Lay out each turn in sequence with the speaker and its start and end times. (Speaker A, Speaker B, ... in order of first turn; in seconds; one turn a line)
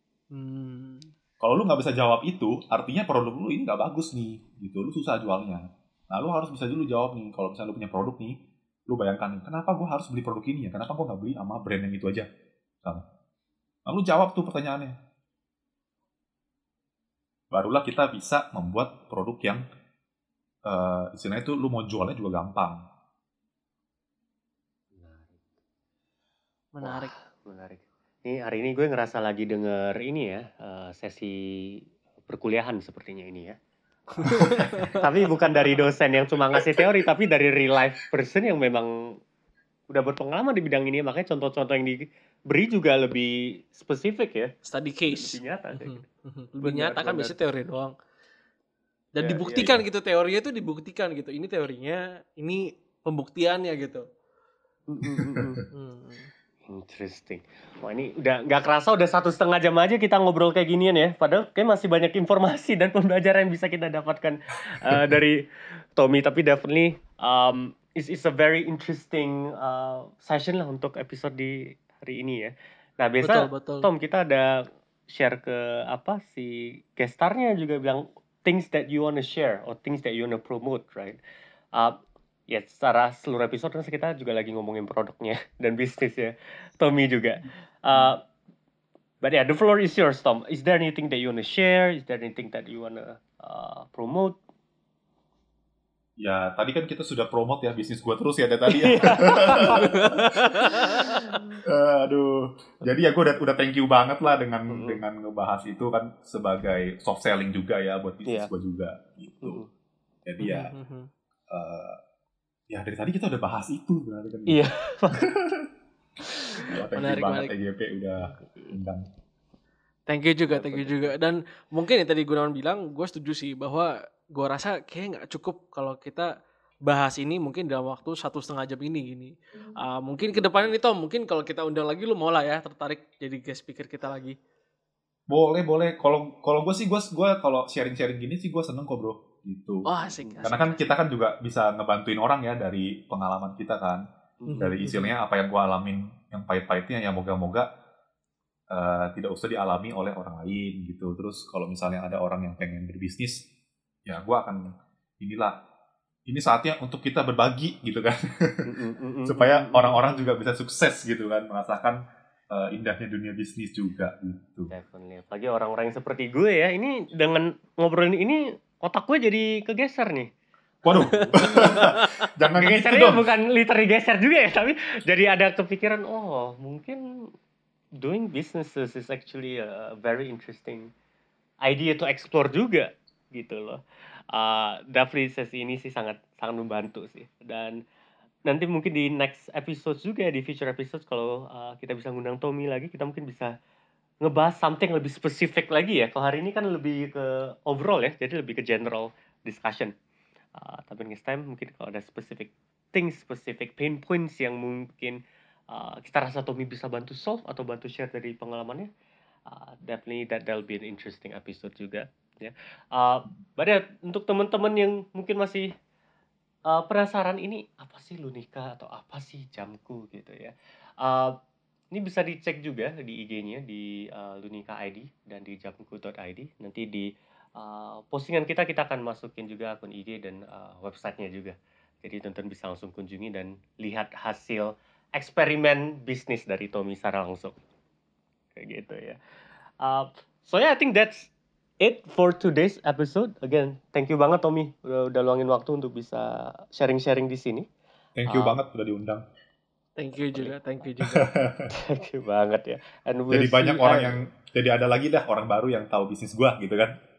Speaker A: 0.3-1.1
Speaker B: 1.4-12.3
Speaker B: 13.8-14.9
Speaker B: 17.5-19.6
Speaker B: 20.6-22.8
Speaker C: 24.9-25.4
Speaker A: 26.7-27.1
Speaker C: 26.8-33.5
Speaker C: 34.1-39.1
Speaker B: 34.3-34.9
Speaker A: 34.4-35.0
Speaker C: 39.9-44.5
Speaker A: 44.6-47.9
Speaker C: 45.1-46.0
Speaker C: 46.6-47.3
Speaker A: 49.1-54.0
Speaker C: 49.2-49.8
Speaker B: 49.5-49.8
Speaker C: 54.9-55.6
Speaker B: 55.1-55.6
Speaker A: 55.7-56.3
Speaker C: 56.6-65.4
Speaker C: 65.9-81.2
Speaker A: 73.2-73.9
Speaker C: 81.7-88.2
Speaker C: 89.2-94.3
Speaker B: 96.2-100.7
Speaker C: 98.7-101.2
Speaker A: 100.3-101.2
Speaker B: 101.6-109.6
Speaker C: 104.7-105.0
Speaker C: 108.2-108.5
Speaker C: 109.4-109.7
Speaker B: 110.2-110.7
Speaker A: 110.4-111.1
Speaker B: 111.5-112.0
Speaker B: 112.7-115.7
Speaker C: 114.5-115.3
Speaker B: 116.6-119.0
Speaker A: 116.9-117.5
Speaker A: 120.1-126.3
Speaker C: 120.4-121.1
Speaker A: 126.8-134.4
Speaker C: 130.3-130.7
Speaker B: 135.3-139.8
Speaker A: 139.8-140.8
Speaker C: 140.0-140.6
Speaker B: 140.4-144.0
Speaker C: 144.4-144.7
Speaker A: 144.5-145.2
Speaker B: 144.6-147.7
Speaker B: 148.7-153.4
Speaker B: 154.1-154.6
Speaker B: 155.2-155.5
Speaker B: 156.3-158.7
Speaker C: 158.7-160.2
Speaker B: 159.2-164.7
Speaker C: 164.7-170.3
Speaker B: 170.8-173.2
Speaker C: 170.9-171.9
Speaker A: 171.0-172.1
Speaker C: 172.5-177.3
Speaker C: 178.0-180.9
Speaker C: 181.6-183.8
Speaker C: 184.3-187.8
Speaker C: 188.5-193.5
Speaker C: 194.2-199.9
Speaker C: 200.6-205.2
Speaker C: 205.7-208.9
Speaker C: 209.5-215.7
Speaker C: 216.7-221.4
Speaker C: 221.9-237.6
Speaker C: 238.6-239.2
Speaker C: 239.8-247.7
Speaker B: 248.2-249.2
Speaker C: 248.3-248.6
Speaker A: 250.0-251.3
Speaker B: 251.1-251.7
Speaker C: 251.7-254.2
Speaker B: 253.3-256.9